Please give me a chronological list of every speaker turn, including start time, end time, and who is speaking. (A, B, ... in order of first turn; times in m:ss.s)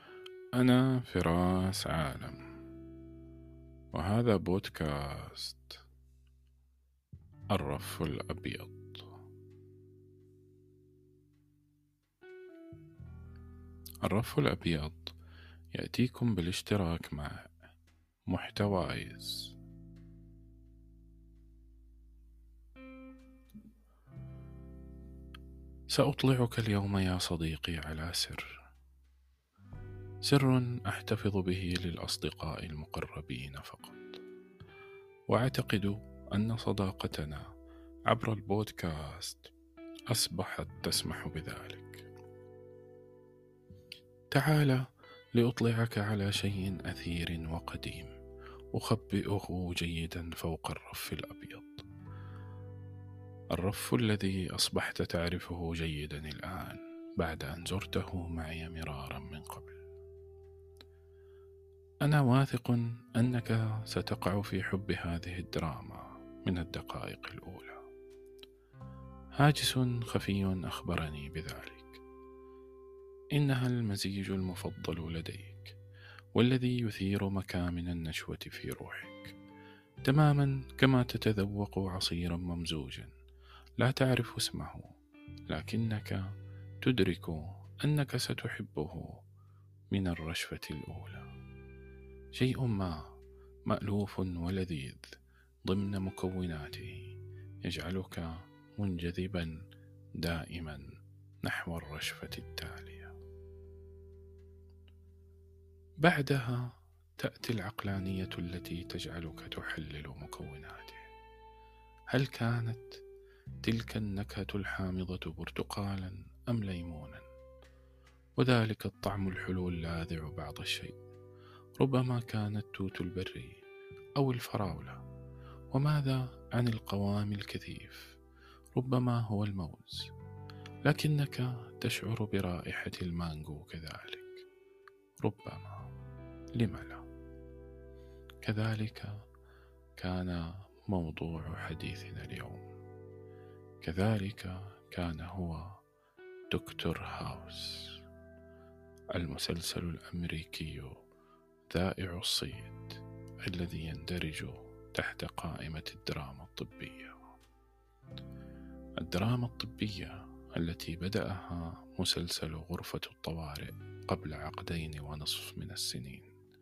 0:00.6-0:02.5 A
0:03.9-0:05.8 A
0:07.5-0:09.1 A
0:14.0-0:15.2 A
0:15.7-0:17.5 A
0:18.2-0:19.6 A
0:25.9-0:28.6 A
0:30.2-0:34.2 A
0:35.3-0:37.5 A
0:38.1-0:39.5 A
0:40.1-0:42.1 A
0:44.3-0:48.1 A
0:48.7-0:51.8 A
0:53.5-0:59.8 A
1:02.0-1:07.8 A
1:09.4-1:12.0 A
1:13.3-1:15.8 A
1:16.3-1:19.4 A
1:20.0-1:23.1 A
1:23.8-1:25.0 A
1:25.5-1:29.2 A
1:29.9-1:31.3 A
1:32.3-1:33.1 A
1:33.6-1:39.6 A
1:40.1-1:40.9 A
1:41.4-1:43.2 A
1:46.0-1:51.1 A
1:52.1-1:53.0 A
1:53.6-1:57.3 A
1:58.4-2:01.0 A
2:01.8-2:03.6 A
2:04.2-2:05.0 A
2:05.7-2:08.2 A
2:08.7-2:10.1 A
2:10.8-2:14.4 A
2:15.2-2:15.9 A
2:16.5-2:17.0 A
2:18.4-2:19.2 A
2:20.0-2:22.6 A
2:23.8-2:25.8 A
2:26.5-2:28.0 A
2:29.1-2:31.0 A
2:31.7-2:37.3 A
2:39.0-2:46.3 A